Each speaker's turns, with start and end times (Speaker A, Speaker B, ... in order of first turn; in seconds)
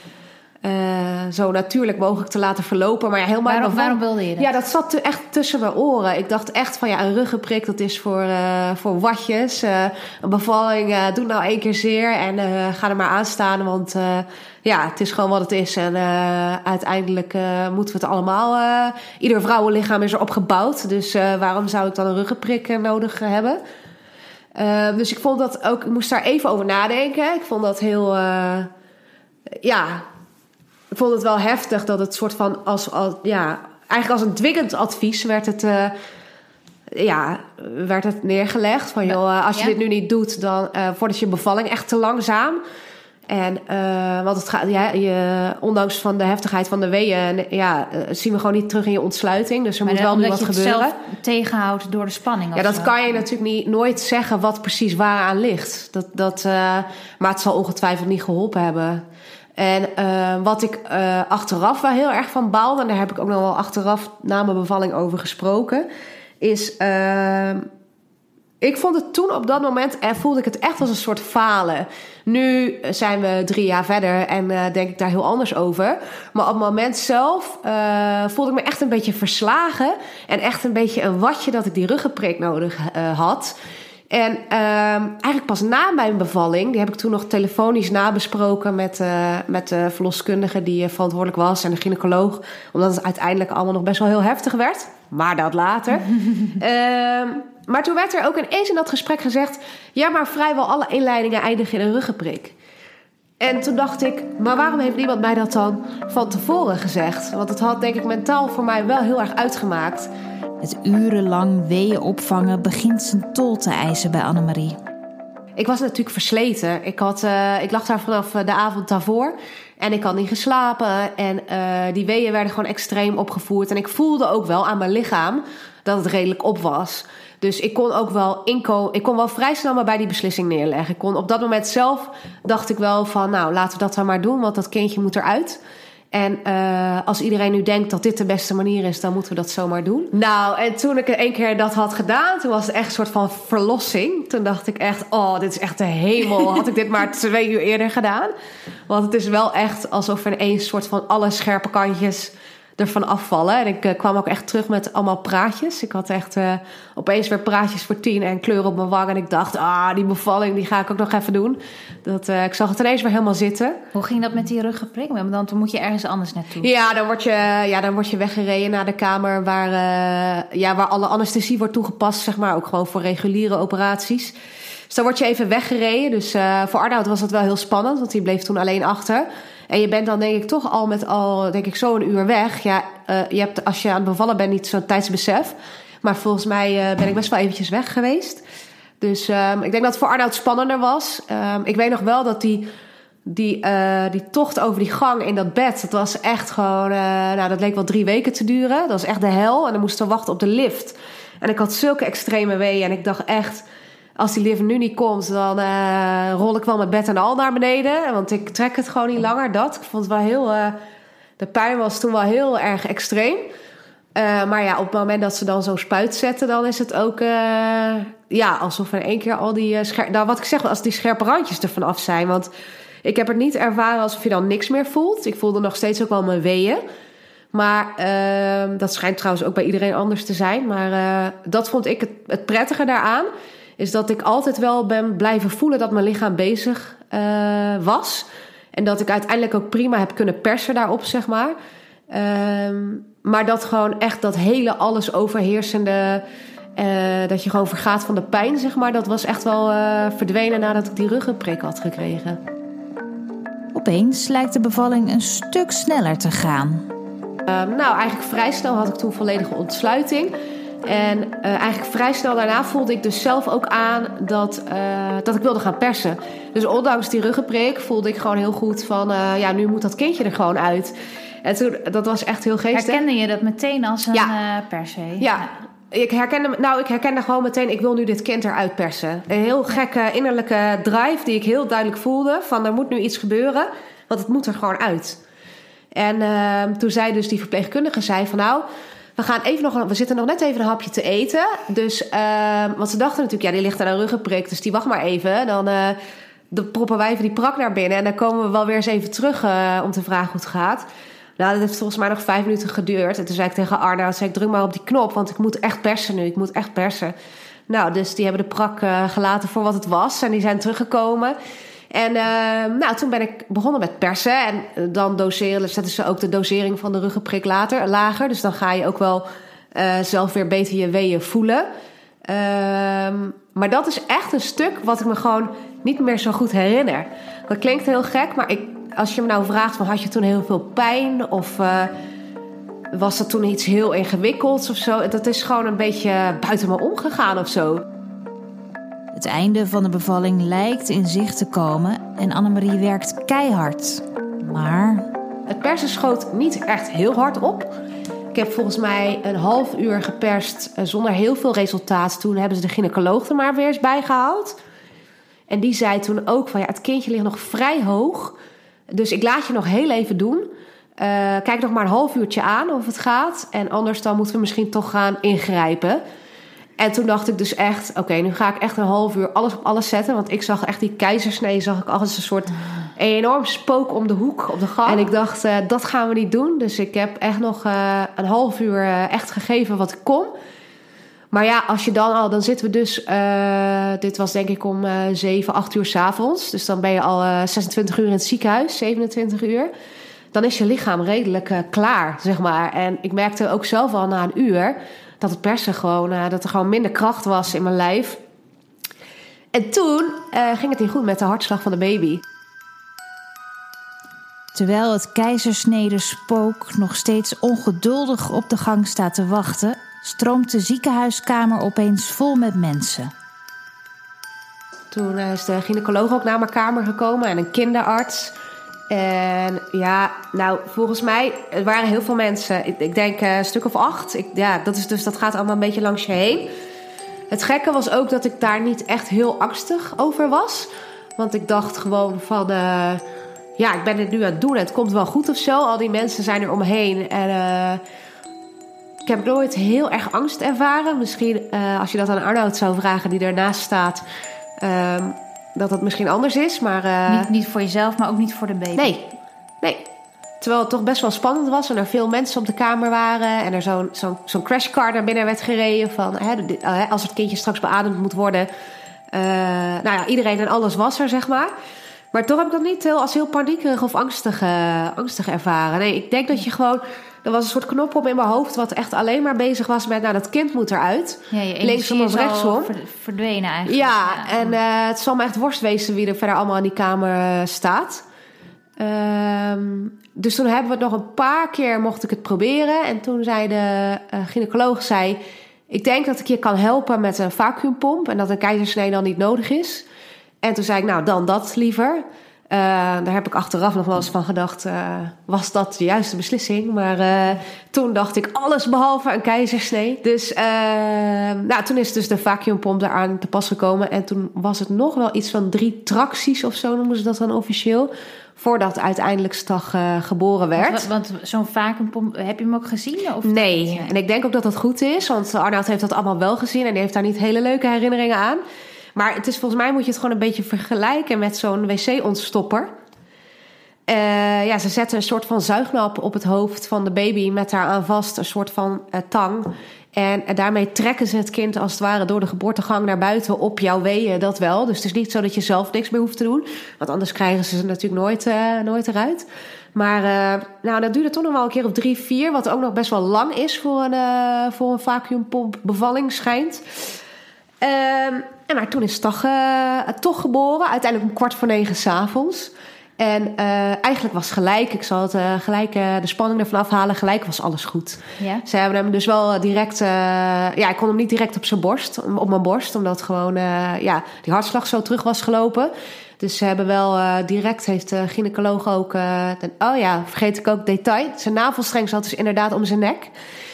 Speaker A: 0.6-23.6, 24.5-28.7, 29.6-30.0, 30.9-35.9, 36.9-42.6, 43.3-51.0, 52.5-59.0, 59.6-65.9, 66.4-67.7, 68.6-83.5, 84.1-102.5, 103.4-110.1, 115.6-135.6, 136.1-148.3, 148.9-163.8, 166.6-174.3, 174.9-188.4, 189.0-192.7, 193.2-203.6, 204.2-210.8, 211.4-213.5, 214.1-222.5, 223.0-226.8, 227.5-241.5, 242.1-246.2, 246.8-252.4, 257.5-270.9, 271.4-273.0, 275.2-285.2, 285.9-288.6, 289.2-296.0, 296.5-300.9, 301.4-307.1, 307.7-311.3, 311.9-321.6, 322.3-331.9, 332.9-337.8, 345.5-347.7, 348.3-354.6, 355.5-358.4, 358.9-360.4, 361.0-366.0, 366.8-380.3, 381.3-389.7, 390.3-398.2, 399.5-402.2, 414.9-418.3, 418.9-426.5, 427.3-433.0, 433.6-437.8, 439.1-444.0, 444.6-447.3, 448.8-449.0, 450.4-458.5, 459.1-461.5, 462.1-472.7, 473.6-478.0, 478.8-489.8, 490.4-510.9, 513.2-518.4, 518.9-522.7, 523.9-546.6, 547.6-573.1
Speaker B: 3.5-4.5, 49.8-52.9, 110.6-114.8, 163.9-166.7, 253.7-256.9, 272.7-275.4, 339.1-345.1, 404.5-413.1, 447.1-449.0, 471.3-474.6, 510.6-513.9